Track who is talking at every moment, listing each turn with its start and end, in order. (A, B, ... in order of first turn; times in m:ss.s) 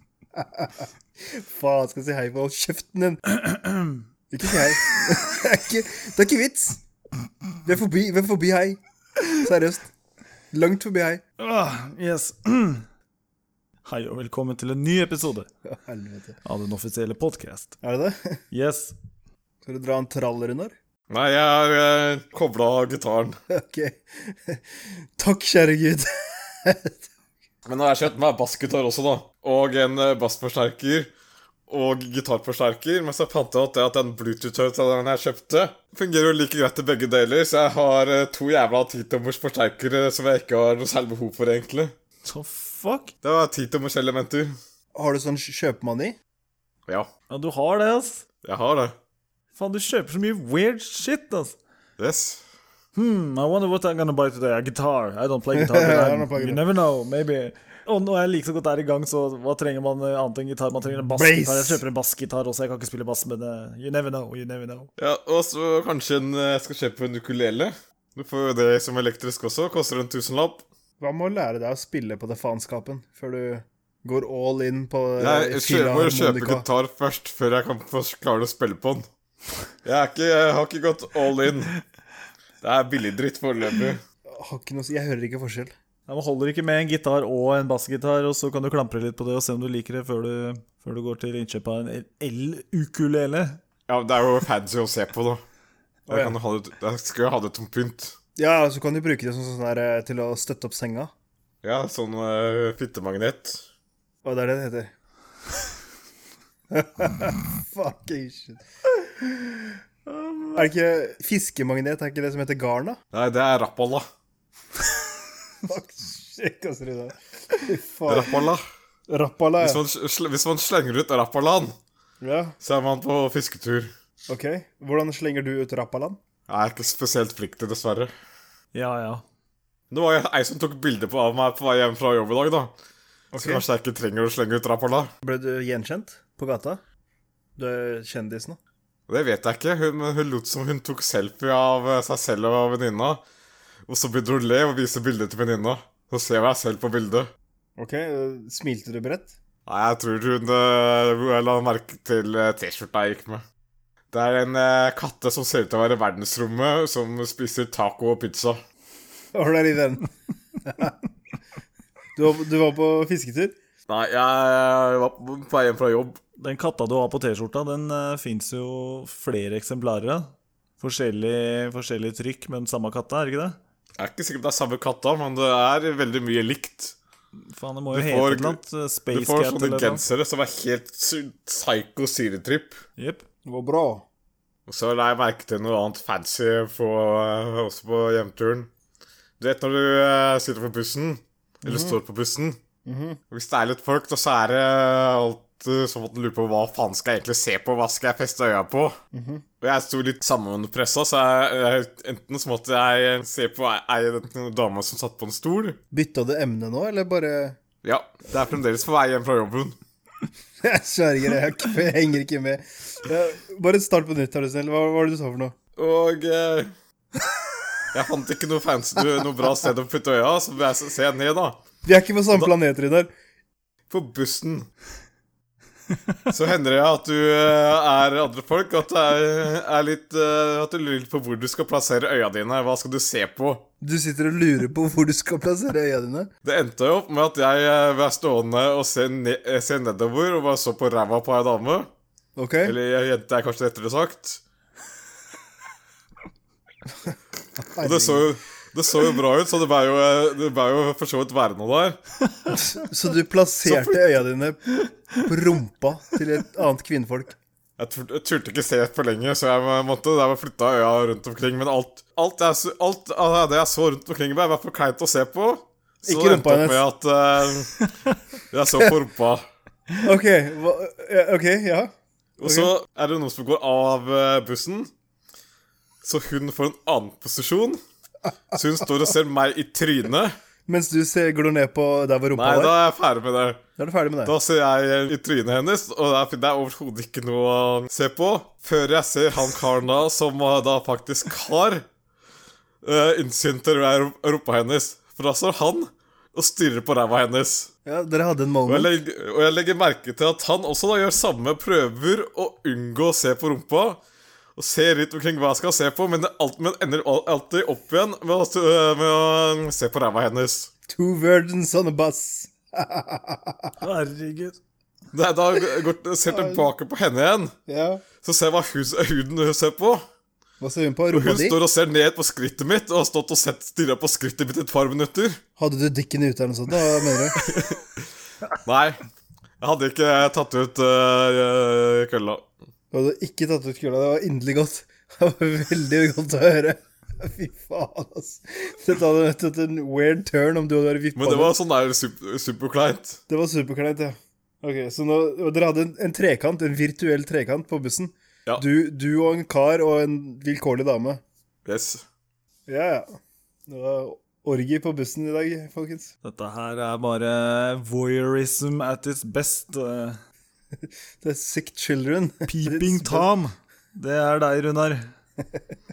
0:00.3-0:03.2 A
0:03.3-0:04.0 B
0:04.3-0:06.8 A
0:07.6-0:09.9 A
0:10.5-0:11.2 A
0:11.4-0:12.8 B
0:13.8-0:15.5 B
0:15.7-0:16.4 A
0:16.4-0:17.8 B
0:17.8-0:18.4 A
0:18.5-0:18.9 B
0:19.6-0:20.7 A
0:21.1-0:23.4 C
0:23.5-0:27.1 A
0:27.6-0:31.1 C
0:31.7-0:41.9 C
0:42.2-0:43.1 B
0:43.2-0:44.6 C
0:44.9-0:46.2 A
0:47.3-0:48.2 B
0:48.4-0:48.9 C
0:49.6-0:51.6 B
0:52.0-0:52.4 C
0:52.9-1:04.9 B
0:55.5-0:56.6 A
1:01.1-1:01.8 A
1:05.0-1:10.6 C
1:11.0-1:16.6 A
1:15.2-1:19.0 C
1:19.8-1:21.8 C
1:22.6-1:24.0 C
1:24.3-1:25.7 A
1:26.1-1:33.6 B
1:33.9-1:35.4 C
1:36.1-1:36.4 A
1:36.1-1:38.2 C
1:38.4-1:41.1 A
1:41.6-1:43.6 C
1:44.2-1:44.9 A
1:46.7-1:48.6 A
1:50.0-1:50.7 B
1:50.6-1:53.0 A
1:53.1-1:54.0 C
1:55.6-1:58.5 A
1:58.1-1:58.6 C
1:59.1-1:59.8 A
1:59.6-2:01.8 C
2:02.2-2:02.5 A
2:02.6-2:03.9 C
2:04.3-2:06.2 A
2:06.5-2:08.1 C
2:08.7-2:09.2 B
2:09.9-2:12.7 C
2:13.3-2:13.6 A
2:13.3-2:15.1 C
2:15.2-2:16.8 A
2:17.6-2:18.6 A
2:19.1-2:23.2 C
2:23.9-2:27.3 C
2:27.8-2:29.3 A
2:29.6-2:33.4 C
2:34.1-2:38.6 C
2:39.3-2:40.1 A
2:40.6-2:41.0 A
2:42.2-2:43.5 A
2:43.9-2:46.2 C
2:46.4-2:53.6 B
2:54.0-2:57.0 C
2:57.4-3:00.0 B
2:57.9-2:58.6 C
2:59.1-3:02.8 C
3:03.0-3:03.2 B
3:03.4-3:04.0 A
3:04.7-3:08.7 C
3:09.4-3:12.6 C
3:11.6-3:12.0 A
3:12.8-3:13.2 A
3:13.3-3:19.0 C
3:19.1-3:19.4 A
3:19.6-3:25.8 C
3:25.9-3:27.6 A
3:27.8-3:29.8 C
3:30.6-3:35.5 A
3:35.8-3:36.7 C
3:37.9-3:41.6 C
3:41.8-3:43.1 A
3:43.9-3:44.7 C
3:46.3-3:53.6 C
3:53.8-3:56.3 A
3:56.4-4:01.9 C
4:02.4-4:02.7 A
4:02.6-4:04.4 C
4:07.6-4:08.3 A
4:07.8-4:12.0 C
4:12.5-4:17.4 A
4:17.8-4:27.8 C
4:26.0-4:26.8 A
4:28.5-4:29.4 C
4:30.0-4:31.9 A
4:32.4-4:34.9 C
4:32.4-4:32.7 A
4:36.0-4:37.8 C
4:38.5-4:40.3 C
4:40.7-4:42.8 A
4:42.3-4:43.6 C
4:43.8-4:44.3 A
4:44.2-4:51.8 C
4:52.8-4:57.7 C
4:57.8-4:58.9 A
4:58.7-5:04.0 C
5:04.6-5:10.7 C
5:10.9-5:13.8 A
5:13.8-5:14.6 B
5:15.1-5:17.5 C
5:16.3-5:16.7 A
5:17.7-5:18.0 A
5:18.2-5:20.0 C
5:20.6-5:21.6 A
5:21.1-5:25.4 C
5:25.6-5:27.4 A
5:27.3-5:28.0 C
5:28.6-5:29.0 C
5:29.6-5:32.4 C
5:32.9-5:41.5 A
5:41.2-5:43.2 C
5:43.3-5:51.2 A
5:51.6-5:52.0 C
5:52.7-5:53.1 A
5:53.7-5:56.1 A
5:56.2-6:00.2 B
6:01.2-6:03.3 A
6:02.5-6:05.0 B